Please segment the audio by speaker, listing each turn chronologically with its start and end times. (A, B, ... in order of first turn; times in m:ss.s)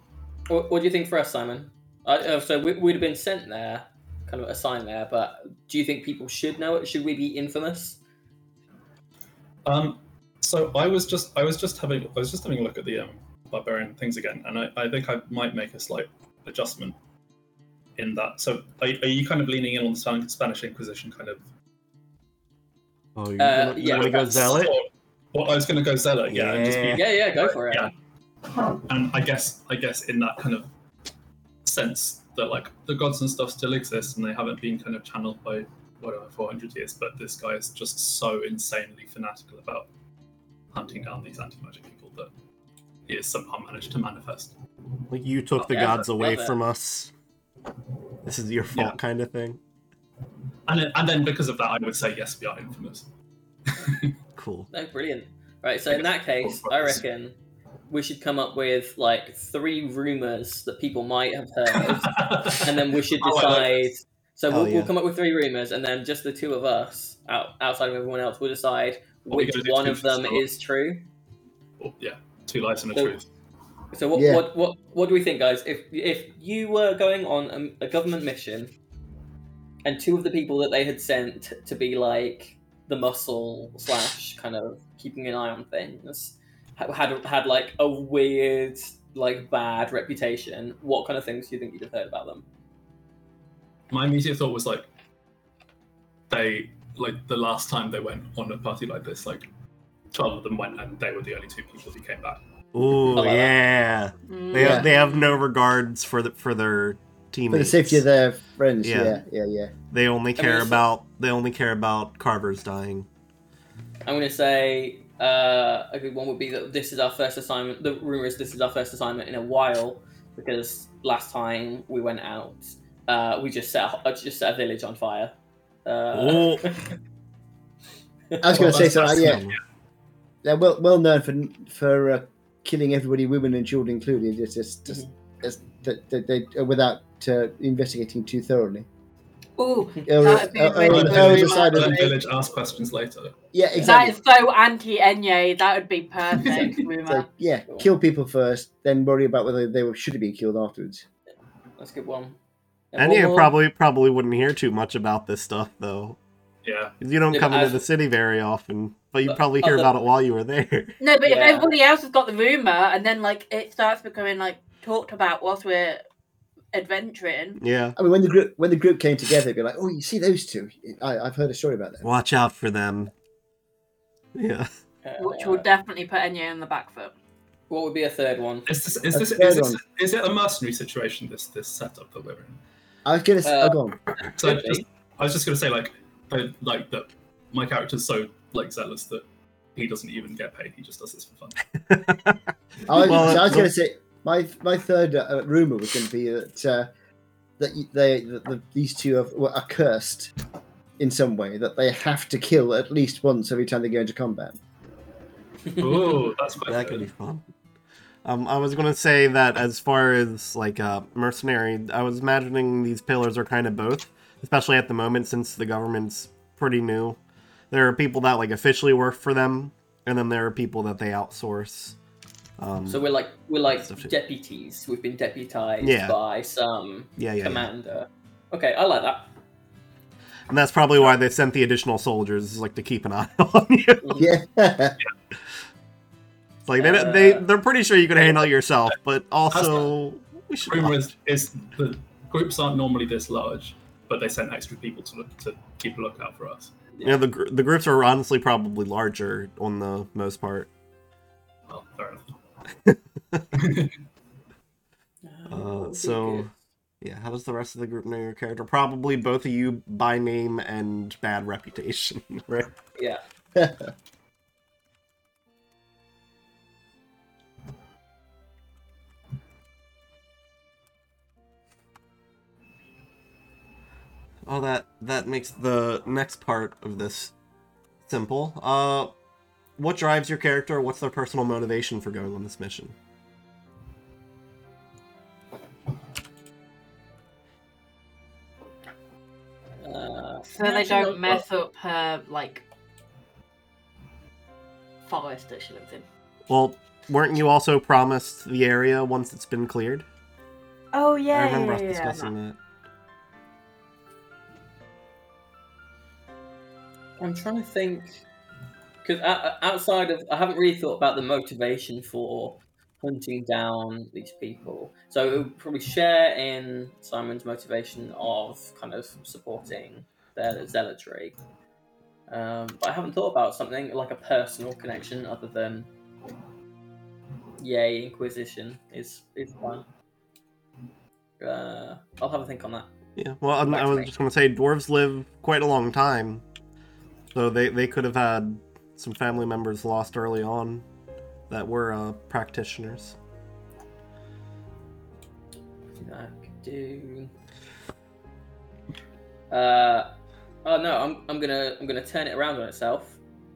0:00.5-0:08.0 A
0:09.6-0:17.0 B
0:18.0-0:21.4 B
0:23.2-0:24.8 C
0:23.4-0:24.6 A
0:23.8-0:27.9 B
0:26.3-0:27.0 C
0:26.9-0:27.9 A
0:28.7-0:30.7 B
0:31.6-0:39.9 B
0:40.7-0:42.3 B
0:43.1-0:44.5 B
0:45.1-0:47.1 C
0:45.6-0:46.6 A
0:48.2-0:49.6 C
0:50.7-0:53.1 B
0:53.7-0:54.1 B
0:54.4-0:54.7 C
0:54.7-0:57.3 A
0:55.9-0:57.0 B
0:57.9-1:11.1 A
1:01.8-1:03.9 B
1:04.5-1:04.9 C
1:09.3-1:10.4 B
1:11.8-1:13.3 B
1:13.9-1:18.7 A
1:14.1-1:14.4 D
1:19.8-1:32.4 A
1:33.9-1:34.9 B
1:36.3-1:39.4 B
1:40.1-1:42.4 B
1:42.7-1:48.0 C
1:43.1-1:43.5 A
1:44.3-1:45.4 E
1:44.5-1:44.9 D
1:47.5-1:49.7 D
1:48.8-1:49.2 C
1:49.9-1:53.1 C
1:50.4-1:50.8 A
1:54.0-2:06.8 A
2:06.1-2:06.6 C
2:08.4-2:09.4 D
2:08.5-2:09.4 B
2:08.6-2:09.6 C
2:10.4-2:18.9 D
2:19.6-2:22.1 E
2:20.0-2:22.1 D
2:20.8-2:23.3 B
2:23.5-2:24.2 D
2:23.8-2:27.3 E
2:26.3-2:26.8 B
2:27.0-2:31.0 D
2:31.8-2:32.4 A
2:32.9-2:33.5 A
2:33.0-2:36.2 C
2:36.6-2:37.0 B
2:37.0-2:41.0 C
2:37.3-2:37.8 A
2:39.2-2:39.9 A
2:41.0-2:46.0 E
2:41.2-2:41.7 A
2:46.7-2:47.6 E
2:47.6-2:48.0 C
2:48.0-2:52.1 D
2:52.0-2:53.1 C
2:54.3-2:54.7 C
2:55.0-2:55.7 A
2:55.2-2:57.1 E
2:57.7-2:58.6 A
2:58.6-3:02.6 B
2:59.1-2:59.8 D
3:03.0-3:04.0 D
3:03.4-3:04.8 A
3:04.4-3:11.6 B
3:11.9-3:13.7 C
3:12.9-3:16.9 D
3:17.6-3:20.3 D
3:21.0-3:24.6 D
3:25.7-3:27.1 B
3:25.8-3:26.1 A
3:26.7-3:27.4 C
3:28.2-3:37.2 C
3:37.7-3:42.0 C
3:42.6-3:43.0 C
3:42.9-3:49.3 A
3:43.8-3:44.1 C
3:45.8-3:46.2 C
3:47.2-3:47.7 C
3:50.5-3:54.1 C
3:54.0-3:54.3 A
3:54.2-3:55.0 D
3:56.6-4:01.1 C
3:56.8-3:57.5 A
3:59.5-3:59.9 B
4:00.7-4:06.7 B
4:07.0-4:10.7 C
4:11.7-4:12.4 B
4:12.8-4:13.5 C
4:13.5-4:13.9 B
4:15.2-4:16.5 A
4:15.5-4:22.7 C
4:23.0-4:23.2 A
4:34.4-4:37.3 C
4:38.1-4:39.1 C
4:39.8-4:42.9 C
4:49.8-4:51.4 A
4:50.4-4:52.6 E
4:55.0-4:56.0 E
4:56.5-5:00.0 C
5:00.9-5:02.3 E
5:01.3-5:02.6 C
5:07.2-5:08.1 A
5:09.0-5:21.4 A
5:22.3-5:25.9 A
5:27.6-5:29.8 A
5:31.4-5:32.9 A
5:33.2-5:36.4 C
5:33.7-5:34.1 A
5:37.3-5:40.8 C
5:41.5-5:43.2 C
5:46.0-5:47.3 A
5:49.5-5:50.1 A
5:50.6-5:53.2 A